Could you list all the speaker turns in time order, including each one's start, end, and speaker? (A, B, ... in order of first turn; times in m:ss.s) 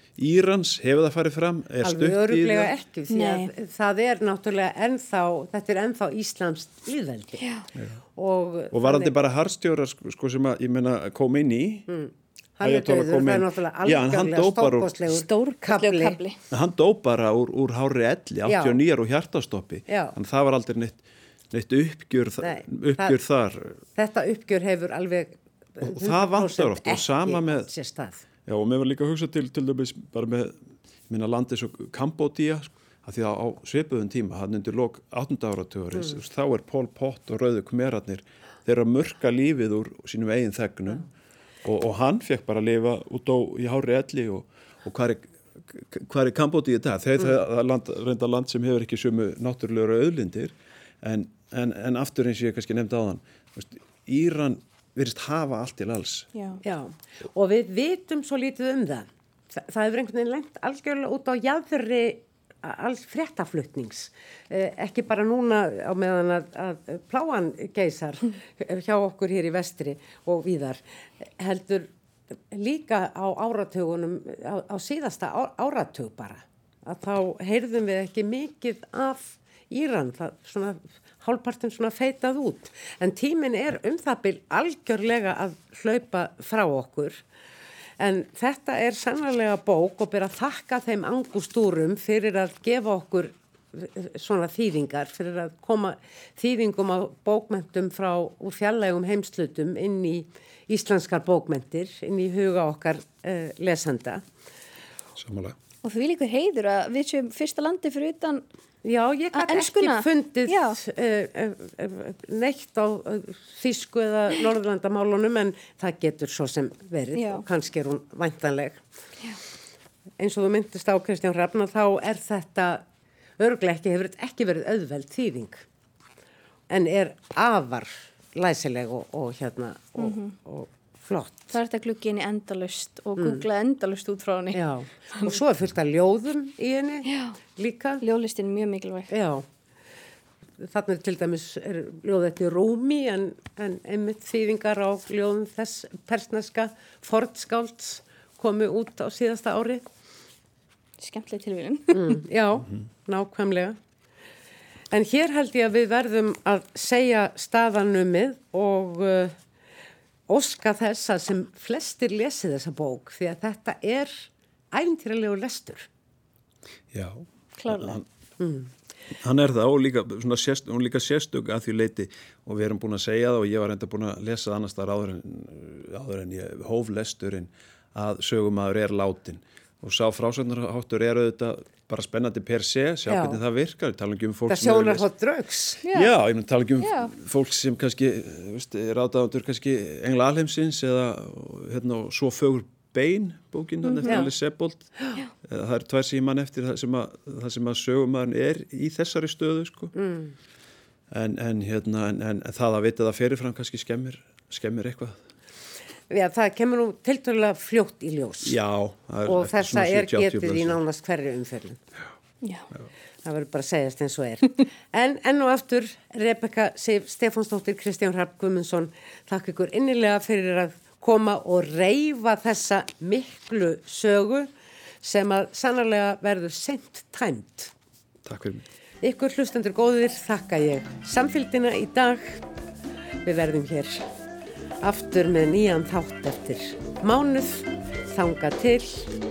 0:00.2-0:02.7 A
0:01.8-0:07.4 B
0:03.1-0:03.5 C
0:07.4-0:07.7 C
0:08.2-0:09.1 B
0:08.7-0:11.9 A
0:11.9-0:16.2 B
0:12.6-0:14.9 A
0:15.1-0:16.4 C
0:16.5-0:23.8 A
0:18.5-0:18.8 B
0:19.9-0:20.2 B
0:22.4-0:23.2 B
0:24.0-0:28.2 B
0:25.8-0:27.7 A
0:28.5-0:30.6 A
0:31.1-0:41.1 A
0:41.6-0:56.3 A
0:56.4-0:56.6 C
0:56.6-1:27.2 B
1:28.0-1:44.2 B
1:45.2-1:45.6 A
1:45.8-1:48.4 C
1:48.8-1:58.8 B
1:49.3-1:50.8 C
1:57.2-1:57.4 C
2:00.2-2:02.8 B
2:03.4-2:05.6 B
2:06.7-2:11.5 B
2:10.0-2:10.3 C
2:11.5-2:14.6 C
2:13.2-2:13.4 B
2:14.5-2:18.0 B
2:17.1-2:17.4 C
2:18.0-2:19.1 C
2:19.1-2:19.4 B
2:20.6-2:29.8 B
2:31.0-2:32.2 C
2:31.9-2:33.8 B
2:34.9-2:39.4 B
2:40.3-2:45.9 B
2:46.9-2:48.1 A
2:47.6-2:48.0 C
2:48.4-2:48.7 B
2:49.1-3:05.0 A
3:03.1-3:03.4 B
3:04.5-3:05.8 B
3:05.8-3:06.1 C
3:05.9-3:14.9 A
3:06.8-3:07.1 C
3:13.8-3:14.2 C
3:15.4-3:19.9 A
3:20.0-3:20.4 B
3:21.1-3:25.3 A
3:26.1-3:28.6 B
3:28.4-3:30.8 A
3:29.3-3:31.8 B
3:32.4-3:32.7 C
3:33.2-3:44.5 B
3:45.0-3:47.7 B
3:48.2-3:48.6 A
3:49.0-3:52.4 B
3:53.2-3:54.0 B
3:54.8-3:59.1 B